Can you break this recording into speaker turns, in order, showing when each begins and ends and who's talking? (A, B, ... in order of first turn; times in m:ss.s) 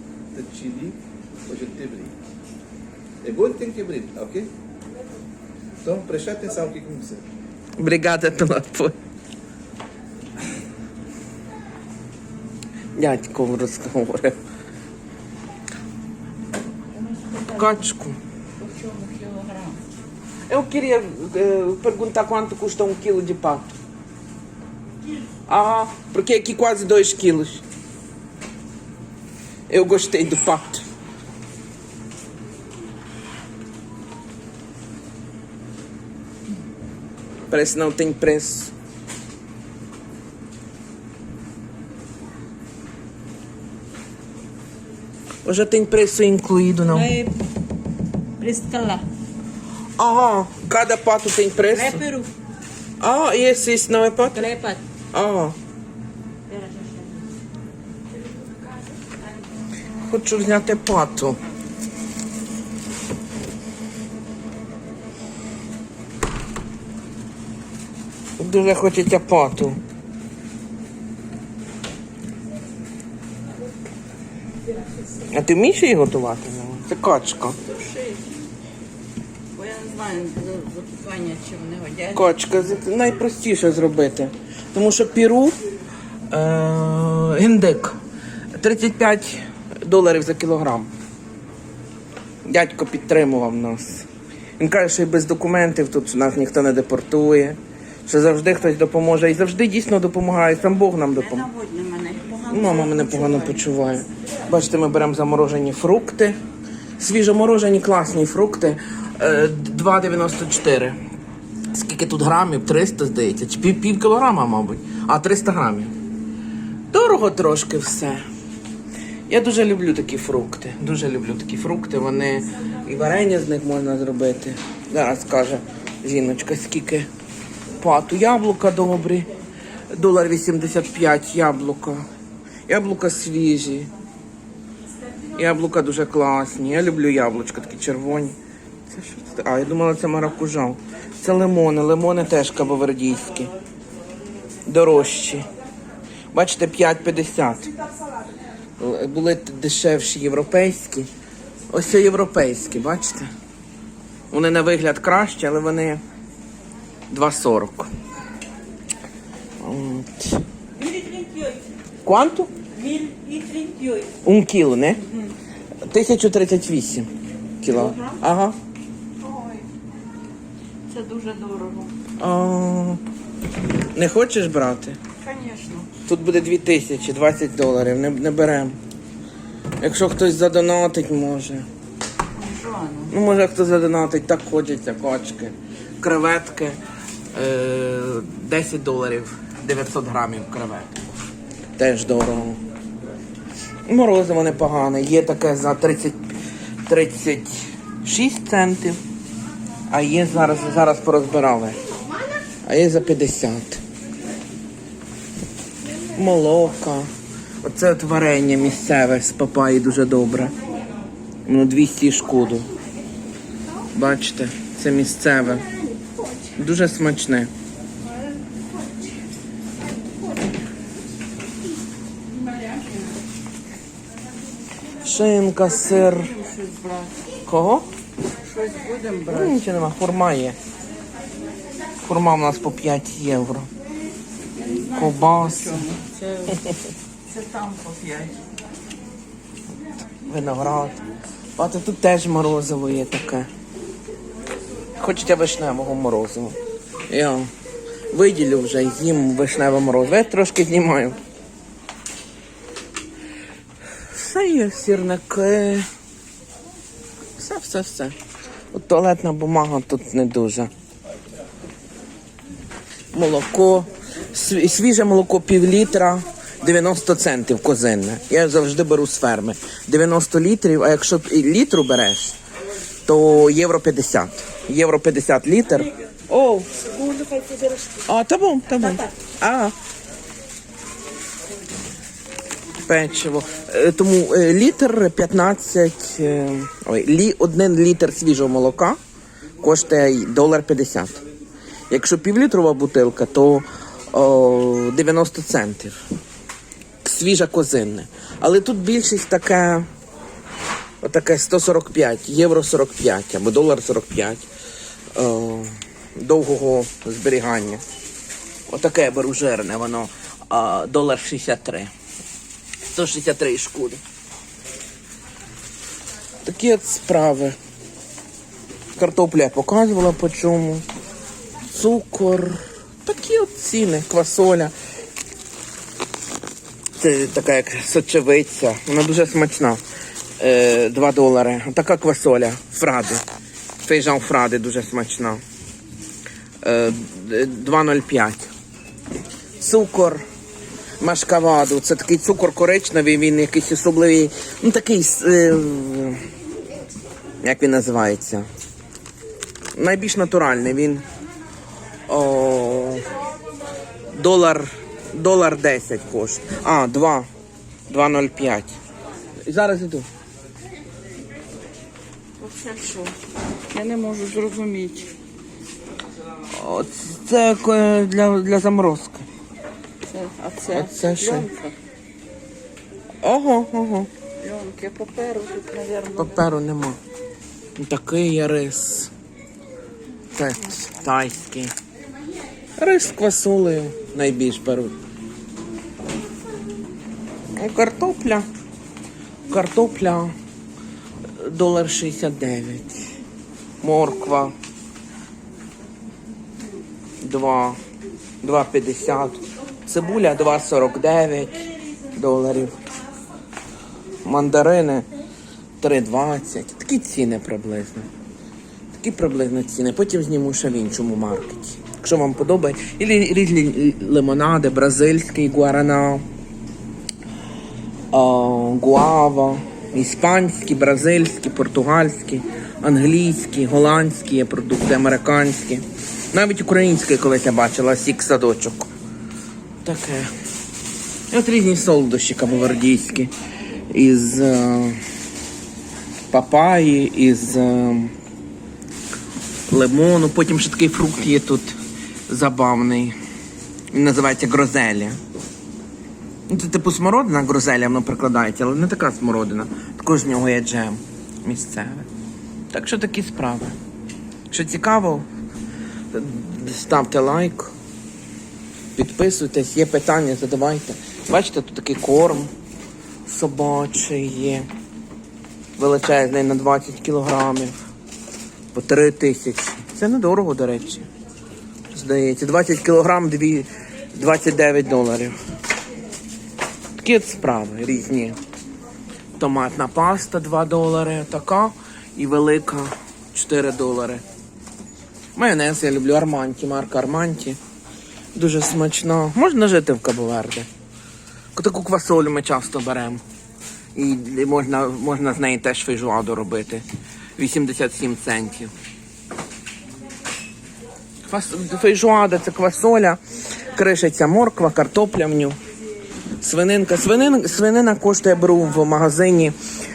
0:00.3-0:02.2 A
0:03.2-0:04.5 A
0:05.8-0:07.3 A
0:07.8-0:09.0 B
0:13.0-0:14.4 B
0:16.9-0:17.8 C
0:17.5-0:18.2 B
0:18.6-0:19.8 C
0:20.5-0:23.8 B
0:25.5-0:27.6 B
0:29.7-0:30.8 B
0:37.5-0:38.7 B
0:45.4-0:47.1 B
0:46.9-0:47.4 C
0:48.4-0:49.0 C
0:50.0-0:52.0 B
0:51.7-0:52.3 C
0:53.0-0:54.5 B
0:54.3-0:54.8 C
0:55.1-0:55.6 B
0:56.5-0:57.2 C
1:00.1-1:01.4 B
1:08.4-1:09.8 B
1:15.3-1:17.6 B
1:17.6-1:18.2 C
1:19.5-1:22.6 C
1:22.2-1:25.6 B
1:26.3-1:28.0 B
1:28.6-1:30.9 B
1:32.4-1:34.1 B
1:34.6-1:41.5 B
1:41.2-1:43.7 C
1:42.5-1:46.4 B
1:47.0-1:51.0 B
1:51.7-1:55.9 B
1:56.9-1:58.2 B
1:59.3-2:07.1 B
2:07.8-2:09.3 B
2:09.9-2:12.0 B
2:12.7-2:13.9 B
2:15.4-2:18.4 B
2:18.9-2:23.5 B
2:24.7-2:25.4 B
2:26.3-2:27.7 B
2:28.8-2:31.1 B
2:31.7-2:33.3 B
2:34.3-2:36.0 B
2:37.1-2:37.9 B
2:39.6-2:40.4 B
2:40.8-2:41.6 C
2:42.0-2:42.5 B
2:42.7-2:44.1 C
2:44.2-2:45.0 B
2:45.9-2:47.1 B
2:47.6-2:48.6 B
2:47.7-2:48.2 C
2:49.2-2:49.7 C
2:50.9-2:51.9 C
2:52.2-2:53.0 B
2:53.9-2:55.0 B
2:55.2-2:55.9 C
2:56.1-2:58.8 B
2:59.8-3:01.7 B
3:02.4-3:03.1 C
3:03.1-3:06.8 B
3:07.3-3:11.0 B
3:11.8-3:12.6 B
3:13.9-3:16.2 B
3:16.9-3:19.0 B
3:19.9-3:21.8 B
3:22.6-3:23.8 B
3:26.2-3:27.1 B
3:27.6-3:30.6 B
3:31.5-3:32.7 B
3:34.0-3:35.6 B
3:36.6-3:37.5 B
3:45.0-3:46.3 B
3:45.7-3:47.2 C
3:47.5-3:47.9 B
3:48.4-3:49.6 C
3:49.3-3:50.6 B
3:52.0-3:53.7 B
3:54.6-3:56.6 C
3:54.9-3:55.9 B
3:57.3-3:58.4 C
4:00.3-4:01.0 B
4:01.6-4:03.5 B
4:05.0-4:06.6 B
4:07.1-4:07.5 B
4:08.1-4:11.2 B
4:14.1-4:15.9 B
4:17.4-4:18.2 B
4:18.7-4:20.7 B
4:23.1-4:32.4 B
4:33.1-4:35.9 B
4:36.3-4:38.0 C
4:38.1-4:39.8 B
4:42.9-4:49.0 B
4:49.6-4:51.2 B
4:51.9-4:56.0 B
4:57.0-4:59.9 B
5:01.0-5:04.5 B
5:05.1-5:07.8 B
5:08.7-5:11.9 B
5:12.9-5:14.0 B
5:16.4-5:17.6 B
5:19.0-5:20.8 B
5:21.7-5:24.7 B
5:27.0-5:29.8 B
5:30.4-5:33.2 B
5:33.8-5:35.4 B
5:36.6-5:38.5 B
5:39.6-5:40.2 B
5:41.0-5:46.2 B
5:47.4-5:48.5 B
5:49.8-5:51.0 B
5:52.1-5:53.1 B
5:54.1-5:57.3 B
5:57.9-5:58.8 B
5:59.5-6:00.1 B
6:02.4-6:03.2 C
6:03.7-6:05.1 C
6:06.5-6:09.3 B
6:10.0-6:11.8 C
6:10.7-6:11.5 B
6:13.2-6:14.1 B
6:14.4-6:16.5 C
6:16.2-6:17.0 B
6:17.8-6:19.1 B
6:20.4-6:21.7 B
6:22.8-6:24.9 B
6:27.6-6:28.5 B
6:29.5-6:30.3 B
6:31.4-6:33.1 B
6:33.8-6:34.5 B
6:37.2-6:37.8 B
6:38.4-6:42.8 B
6:44.2-6:45.1 B
6:45.8-6:48.1 B
6:48.9-6:56.2 B
6:58.1-7:08.9 B
7:09.8-7:10.3 B
7:11.3-7:13.3 B
7:13.9-7:15.0 B
7:16.3-7:18.1 B
7:19.7-7:21.8 B
7:22.3-7:23.2 B
7:23.9-7:25.2 B
7:26.5-7:32.1 B
7:32.7-7:33.8 B
7:34.5-7:35.3 B
7:36.1-7:37.7 B
7:39.0-7:42.5 B
7:43.3-7:44.7 B
7:45.8-7:47.7 B
7:48.7-7:51.1 B
7:51.9-7:55.4 B
7:57.0-7:58.4 B
7:59.4-8:04.2 B
8:05.4-8:07.6 B
8:08.4-8:10.7 B
8:11.6-8:13.2 B
8:14.0-8:16.8 B
8:17.4-8:18.7 B
8:21.3-8:23.2 B
8:23.7-8:25.6 B
8:26.4-8:29.6 B